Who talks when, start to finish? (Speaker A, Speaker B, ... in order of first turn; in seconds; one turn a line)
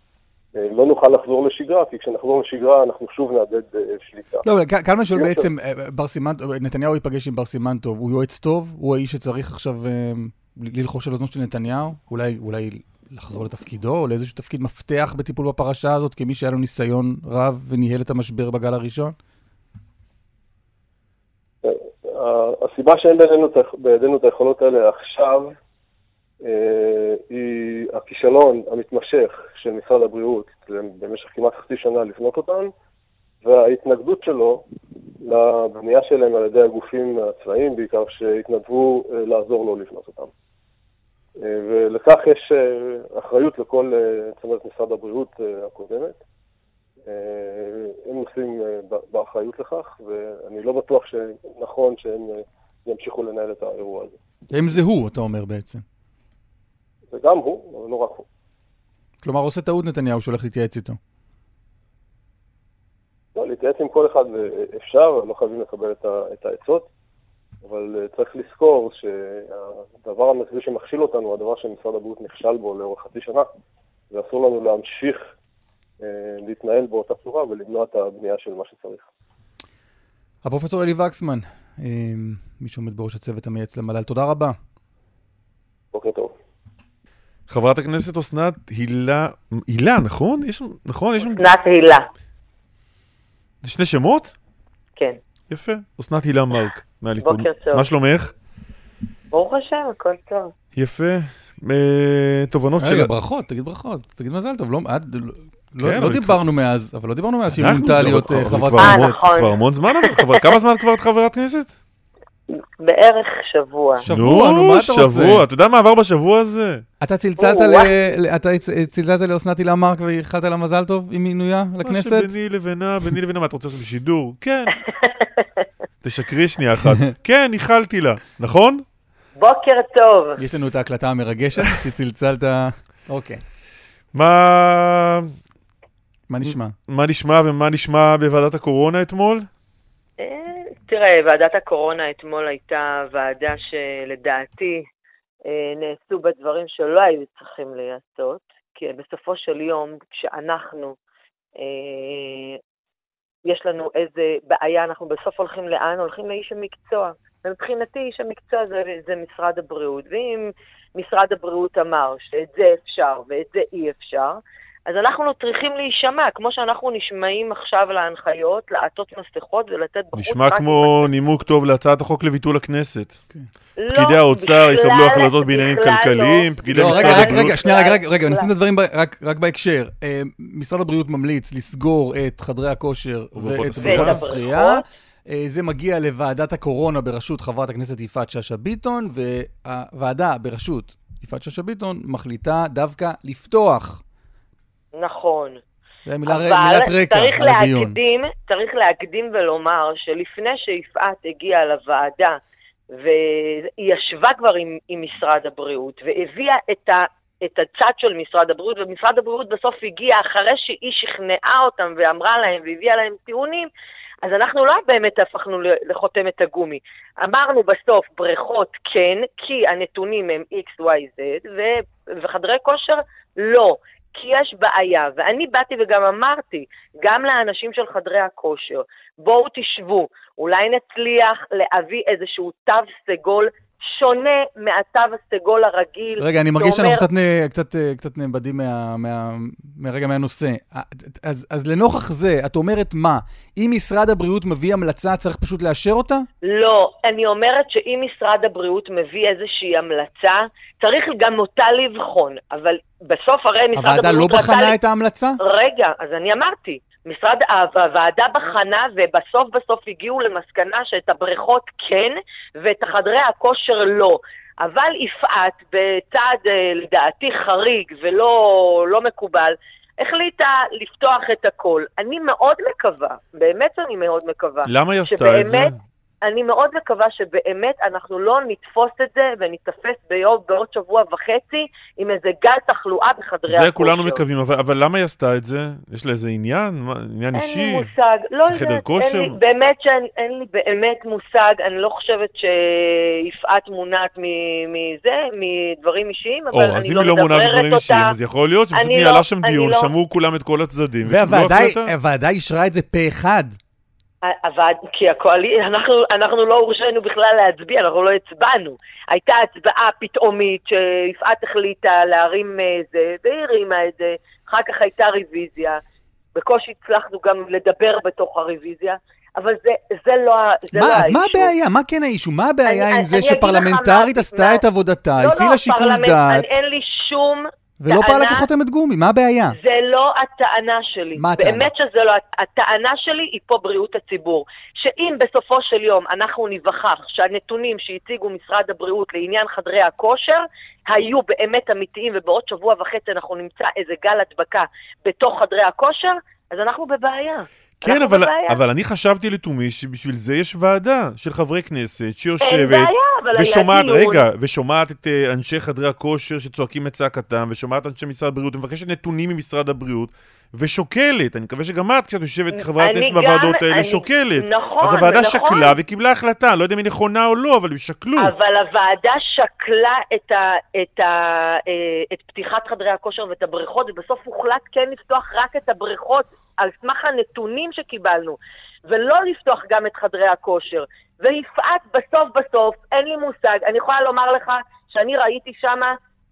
Speaker A: 0.5-4.5
Speaker B: 4.4-19.1
Speaker A: 5.1-5.5
Speaker A: 21.6-25.5
Speaker A: 26.4-32.7
Speaker A: 33.4-34.6
Speaker A: 35.2-40.3
Speaker A: 41.4-46.2
Speaker A: 47.1-54.2
Speaker B: 54.5-55.8
Speaker A: 57.1-58.2
Speaker B: 59.2-61.0
Speaker A: 63.4-66.9
Speaker A: 67.6-73.5
Speaker A: 74.1-75.3
Speaker A: 76.0-79.0
Speaker B: 80.4-84.6
Speaker A: 85.9-86.3
Speaker C: 87.5-91.4
Speaker D: 91.4-92.0
Speaker C: 93.6-94.3
Speaker C: 95.5-98.3
Speaker D: 97.2-97.9
Speaker D: 99.3-100.5
Speaker C: 100.7-103.1
Speaker B: 102.8-109.2
Speaker C: 105.8-106.4
Speaker C: 107.6-111.7
Speaker D: 108.8-109.5
Speaker D: 110.1-110.4
Speaker D: 112.5-114.0
Speaker B: 114.0-115.5
Speaker C: 114.1-116.8
Speaker B: 117.0-122.3
Speaker D: 117.4-117.9
Speaker C: 121.8-124.8
Speaker D: 125.0-125.6
Speaker C: 126.0-128.8
Speaker D: 129.4-130.4
Speaker B: 130.4-133.4
Speaker C: 134.1-135.3
Speaker B: 136.3-136.7
Speaker C: 136.4-139.5
Speaker D: 140.2-144.8
Speaker D: 145.5-150.9
Speaker D: 151.6-152.6
Speaker D: 153.4-171.1
Speaker C: 170.1-173.2
Speaker D: 173.8-178.5
Speaker C: 173.9-177.6
Speaker B: 176.7-194.0
Speaker C: 183.3-184.3
Speaker D: 183.8-184.8
Speaker D: 194.9-195.6
Speaker B: 196.1-198.0
Speaker D: 196.3-202.4
Speaker D: 202.9-213.7
Speaker D: 214.2-237.1
Speaker B: 236.2-246.3
Speaker D: 246.4-254.8
Speaker B: 253.7-255.4
Speaker D: 255.4-275.7
Speaker C: 274.6-275.8
Speaker D: 276.2-284.2
Speaker C: 283.5-287.9
Speaker D: 287.3-298.1
Speaker C: 288.5-289.4
Speaker C: 296.5-301.9
Speaker D: 298.7-299.9
Speaker B: 301.0-303.6
Speaker D: 304.2-315.8
Speaker D: 316.4-321.5
Speaker B: 320.7-326.6
Speaker D: 322.6-324.6
Speaker D: 325.2-328.5
Speaker B: 327.8-329.6
Speaker D: 329.5-348.6
Speaker B: 331.2-331.7
Speaker C: 347.8-368.3
Speaker D: 352.4-354.2
Speaker D: 362.5-365.8
Speaker D: 368.2-385.9